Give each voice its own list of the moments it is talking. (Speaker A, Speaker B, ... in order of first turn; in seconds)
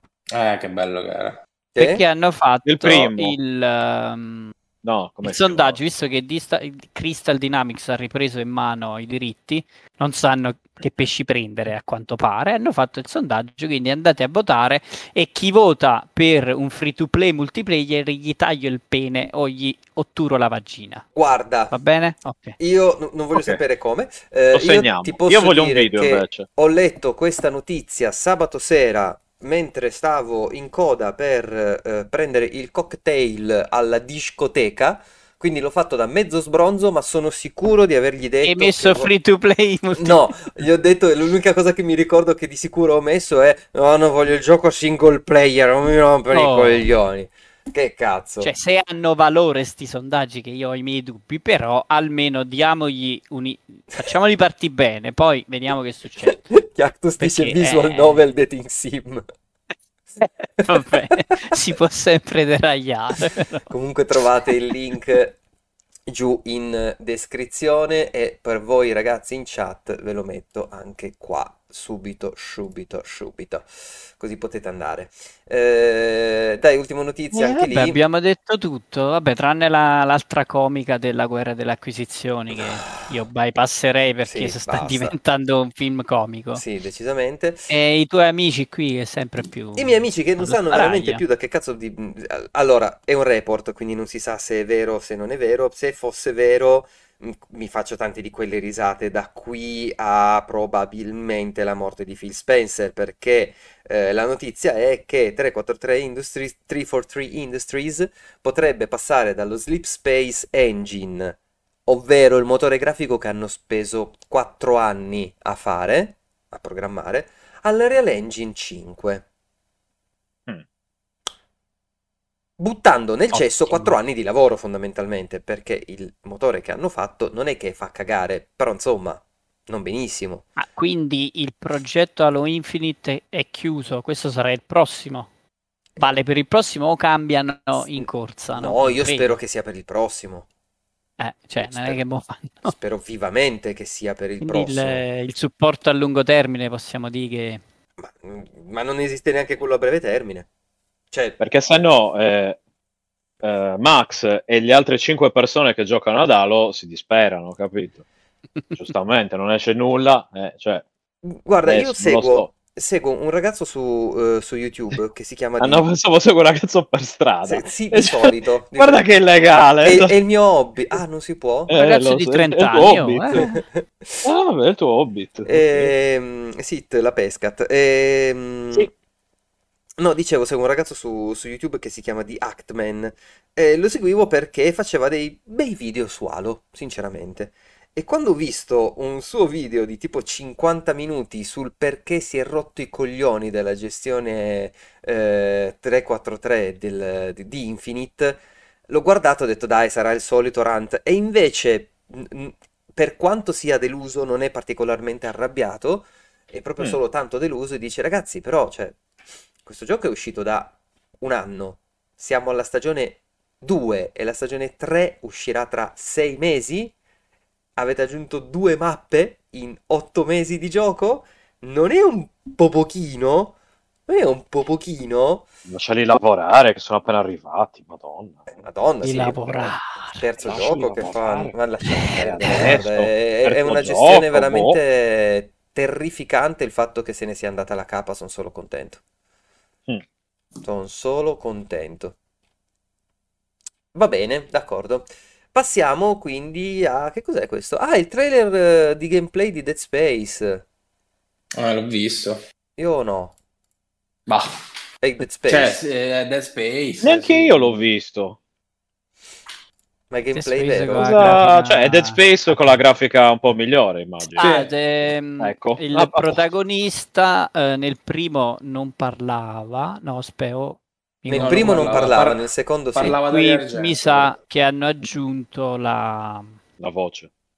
Speaker A: 0.3-1.4, 251.6-252.4, 255.4-257.8, 264.4-264.7, 271.3-274.4
Speaker B: 1.7-2.0, 21.1-21.7, 22.6-39.1, 40.0-48.5, 56.3-59.2, 60.6-61.2, 63.6-65.4, 66.1-78.0, 82.5-83.1, 84.2-85.1, 86.5-87.7, 89.8-119.2, 122.6-130.4, 137.8-140.4, 141.6-142.0, 142.6-145.0, 148.0-150.5, 151.1-151.4, 161.2-165.8, 167.4-169.0, 169.8-171.7, 173.3-174.3, 175.4-178.9, 180.0-209.0, 209.6-216.9, 217.8-223.5, 224.1-225.4, 228.5-239.0, 240.6-242.1, 243.9-250.6, 252.8-253.3, 255.0-255.8, 260.1-261.3, 271.2-273.2
Speaker C: 1.8-4.5, 5.2-21.0, 21.7-22.6, 38.4-40.6, 46.3-46.9, 48.4-56.5, 57.2-58.2, 60.2-63.6, 77.3-86.6, 87.7-91.2, 123.3-124.0, 130.6-135.3, 136.0-139.4, 141.2-142.7, 144.4-147.6, 171.7-173.4, 229.0-230.3, 231.9-232.8, 260.3-262.8, 264.3-271.9, 273.3-276.6
Speaker D: 2.6-3.4, 4.8-5.8, 23.3-23.6, 24.5-26.5, 151.4-152.6, 153.4-158.0, 158.7-160.8, 161.6-162.5, 165.6-170.1, 171.7-173.5, 174.2-175.9, 225.7-228.4, 230.4-231.5, 232.1-234.8, 257.0-258.4, 260.9-264.5, 265.4-266.5, 276.8-277.3